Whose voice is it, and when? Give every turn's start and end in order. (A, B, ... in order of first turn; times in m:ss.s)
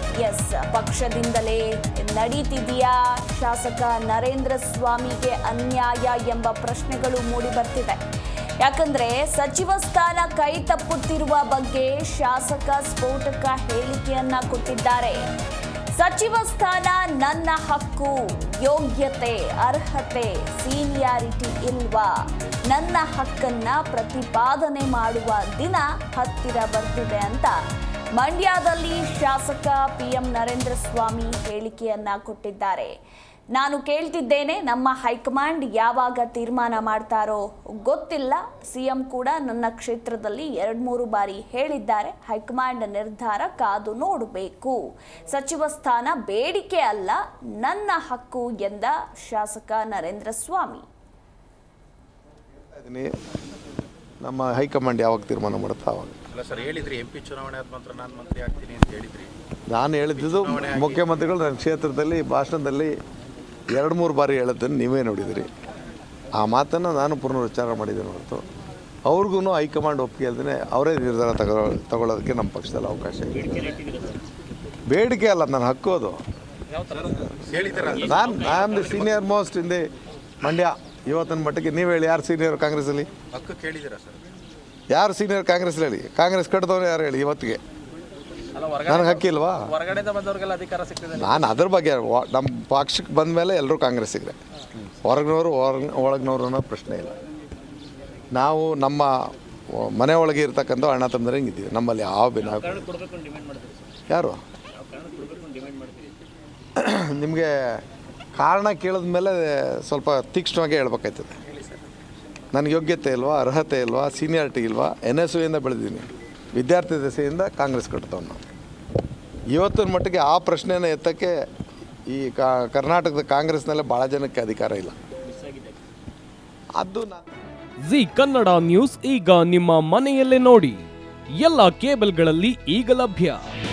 0:00.2-0:08.0 A
0:08.6-0:15.2 A
0:16.0-0:27.6 A
0:28.2-0:32.9 A
0:33.6-0:50.9 A
0:52.7-0:53.1 B
0:54.2-0:56.2 B
0:56.3-0:59.3 C
0:59.7-1:03.0 B
1:00.1-1:01.1 C
1:03.7-1:05.5 B
1:06.4-1:08.5 B
1:09.1-1:13.5 B
1:13.4-1:14.2 D
1:14.9-1:16.2 B
1:16.7-1:17.2 D
1:17.2-1:19.1 C
1:17.7-1:19.8 B
1:18.5-1:18.9 D
1:20.4-1:23.1 B
1:23.3-1:24.2 C
1:24.9-1:27.6 B
1:28.5-1:31.4 D
1:28.8-1:29.7 B
1:31.1-1:34.4 B
1:35.0-1:37.2 B
1:38.3-1:42.9 B
1:42.5-1:43.8 D
1:44.1-1:44.4 B
1:44.7-1:46.1 D
1:46.8-1:47.8 B
1:48.4-1:51.4 B
1:52.5-1:58.4 B
1:59.5-2:01.3 B
2:02.1-2:05.0 B
2:05.3-2:05.8 D
2:06.8-2:07.2 B
2:07.8-2:10.8 E
2:11.4-2:13.5 E